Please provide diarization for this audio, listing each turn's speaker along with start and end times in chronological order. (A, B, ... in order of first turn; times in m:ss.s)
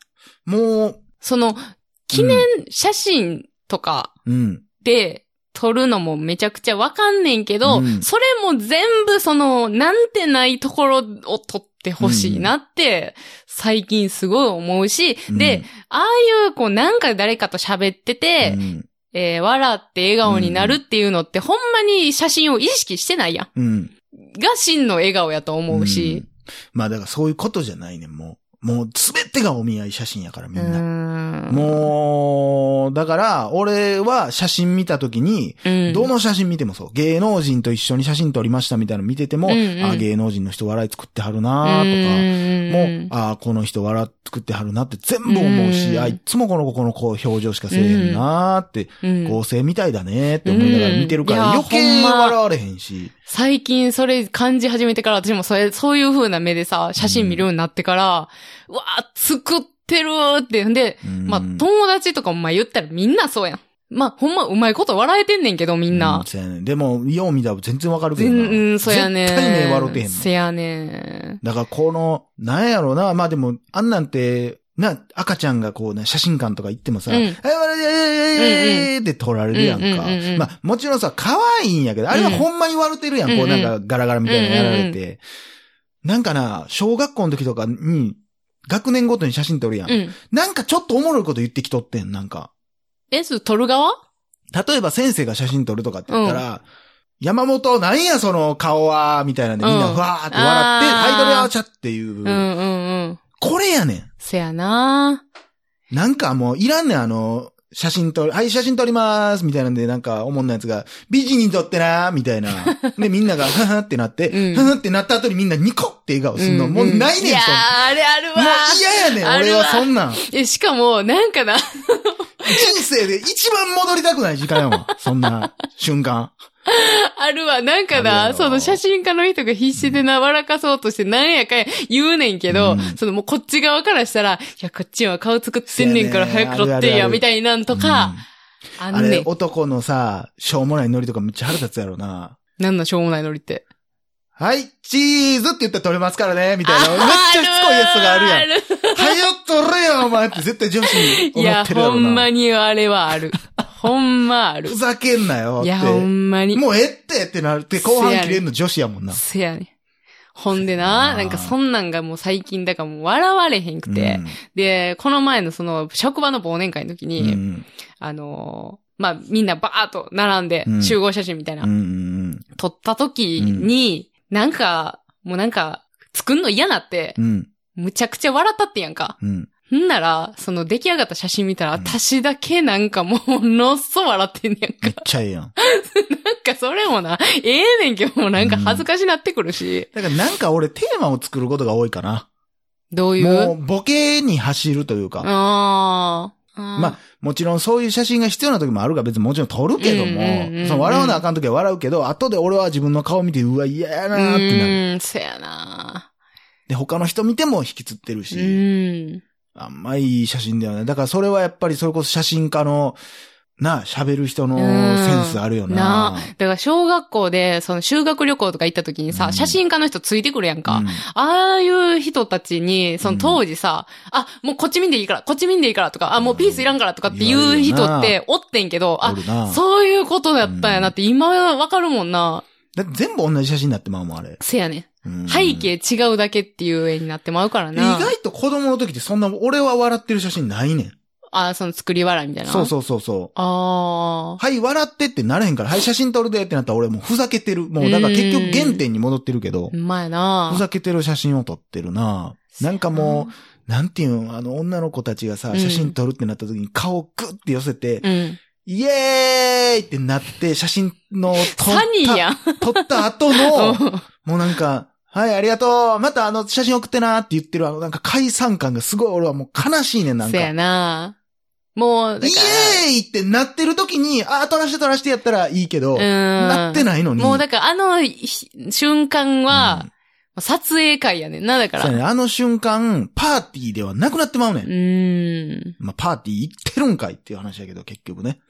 0:00.4-0:01.0 A
0:01.2-0:04.1 B
0:02.1-0:02.4 A
0:04.2-0:04.6 A
0:04.8-0:18.6 B
0:07.6-0:08.1 A
0:12.0-0:12.5 A
0:15.3-0:15.6 A
0:18.4-0:18.9 A
0:19.1-0:23.5 B
0:20.2-0:20.8 A
0:23.6-0:23.9 A
0:24.2-0:26.2 B
0:25.7-0:30.8 A
0:30.6-0:31.9 B
0:31.5-0:53.1 A
0:35.6-0:36.1 B
0:39.4-0:40.0 B
0:41.6-0:43.1 B
0:45.2-0:46.2 B
0:47.7-0:48.2 B
0:49.0-0:49.4 B
0:50.4-0:52.4 B
0:53.3-1:06.2 B
0:57.0-0:57.4 A
1:01.0-1:01.6 A
1:05.9-1:10.3 A
1:08.2-1:11.4 B
1:11.4-1:25.2 A
1:17.1-1:17.4 B
1:18.4-1:18.9 B
1:19.5-1:20.5 B
1:22.1-1:22.4 B
1:23.2-1:23.7 B
1:24.2-1:25.0 B
1:26.0-1:32.5 A
1:29.9-1:30.1 B
1:33.1-1:34.0 B
1:34.5-1:36.6 A
1:36.1-1:36.4 B
1:37.2-1:42.4 A
1:39.6-1:41.5 B
1:42.2-1:43.2 B
1:43.4-1:44.1 A
1:44.2-1:45.2 B
1:45.9-1:57.8 A
1:52.6-1:52.9 B
1:54.3-1:54.7 B
1:56.4-2:02.8 B
1:58.3-2:00.2 A
2:02.4-2:06.4 A
2:06.7-2:18.2 B
2:07.9-2:08.8 A
2:09.7-2:10.0 A
2:12.5-2:13.0 A
2:15.7-2:18.2 A
2:18.8-2:19.3 B
2:18.9-2:22.4 A
2:22.6-2:23.6 B
2:24.4-2:32.3 A
2:26.6-2:29.2 B
2:30.9-2:34.8 B
2:34.6-2:39.2 A
2:35.6-2:36.6 B
2:37.8-2:38.4 B
2:39.1-2:39.7 B
2:40.3-2:47.4 B
2:40.5-2:41.5 A
2:43.9-2:44.4 A
2:47.2-2:47.6 A
2:48.0-2:51.7 B
2:50.6-2:51.0 A
2:51.6-2:52.4 A
2:52.5-2:57.2 B
2:53.4-2:53.7 A
2:57.2-2:57.5 A
2:57.7-2:59.2 B
2:59.2-2:59.5 A
2:59.7-3:05.0 B
3:04.8-3:05.5 A
3:05.6-3:09.9 B
3:08.4-3:08.8 A
3:09.9-3:12.3 A
3:12.9-3:13.5 B
3:13.2-3:15.3 A
3:15.2-3:17.0 B
3:16.8-3:24.8 A
3:19.8-3:21.2 B
3:24.1-3:26.1 B
3:26.7-3:28.6 A
3:28.3-3:29.2 B
3:29.5-3:33.0 A
3:33.6-3:36.3 A
3:34.6-3:52.4 B
3:39.1-3:39.6 A
3:40.6-3:41.0 A
3:43.0-3:43.4 A
3:46.2-3:48.2 A
3:49.0-3:49.6 A
3:50.4-3:50.9 A
3:52.7-3:54.4 A
3:54.4-3:58.1 B
3:55.0-3:55.7 A
3:57.7-4:00.9 A
4:01.3-4:02.7 B
4:02.4-4:03.3 A
4:03.3-4:04.4 B
4:04.4-4:09.7 A
4:07.8-4:08.8 B
4:09.7-4:10.6 B
4:10.5-4:18.0 A
4:12.7-4:13.3 B
4:15.5-4:15.9 B
4:18.0-4:18.4 B
4:18.6-4:30.5 A
4:21.4-4:24.0 B
4:30.2-4:31.2 B
4:31.8-4:32.8 B
4:32.2-4:37.4 A
4:36.0-4:42.0 B
4:39.5-4:39.9 A
4:41.8-4:44.7 A
4:44.6-4:45.7 B
4:45.8-4:48.4 A